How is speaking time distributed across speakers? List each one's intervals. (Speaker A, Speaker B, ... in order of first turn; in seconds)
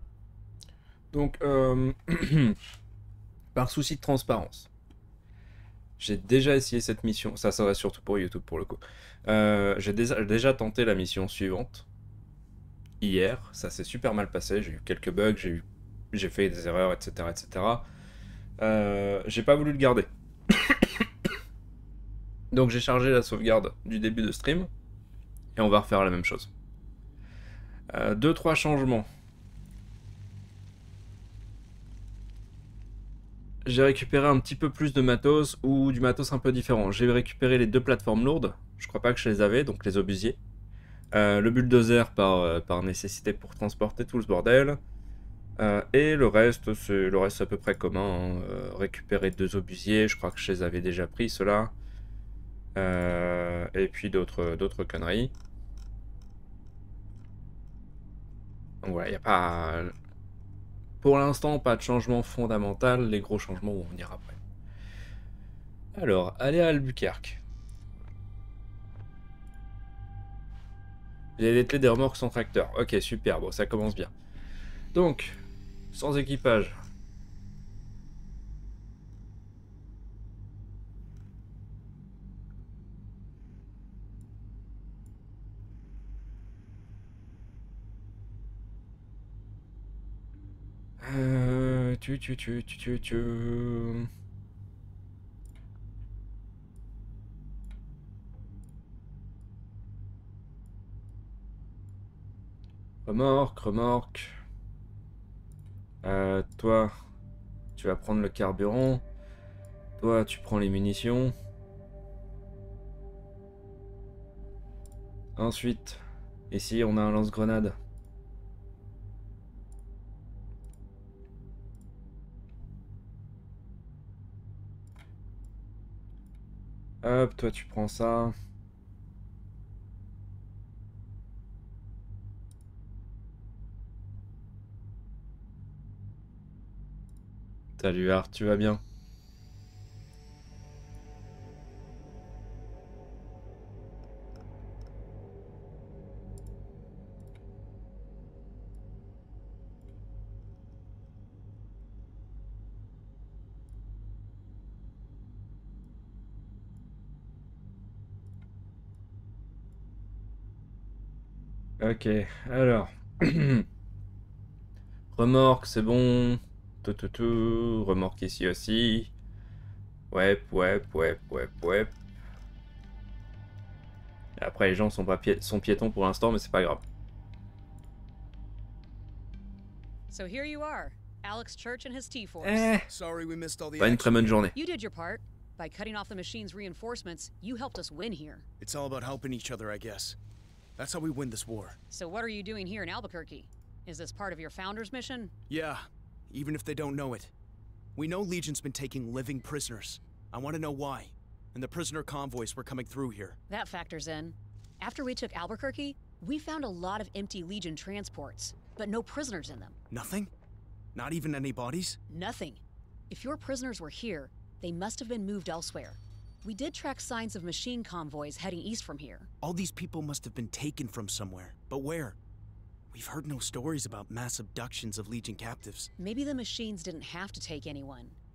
Speaker A: 1.1-2.6, 3.5-4.7, 6.0-11.8, 13.0-17.9, 18.6-21.1, 22.5-24.7, 25.6-26.5, 27.9-29.1, 33.6-40.4, 41.1-44.8, 45.6-51.7, 52.8-55.3, 58.8-59.9, 61.0-64.4, 65.9-67.4, 71.4-74.1, 74.9-75.4, 75.9-76.8, 91.0-94.1, 103.1-104.3, 106.0-106.9, 107.8-109.0, 110.0-111.3, 115.4-117.8, 127.0-128.3, 137.8-138.8, 161.8-163.7, 165.1-169.1, 170.1-171.9, 174.4-176.8, 182.4-182.9, 183.8-184.5
Speaker B: 180.1-182.7, 184.6-188.4, 191.9-195.3, 203.5-209.8, 212.1-219.3, 226.0-228.2
Speaker C: 182.9-184.4, 188.6-190.2, 190.8-191.8, 195.5-197.3, 198.0-203.4, 209.9-210.3, 210.9-212.0, 219.4-222.2, 222.9-225.9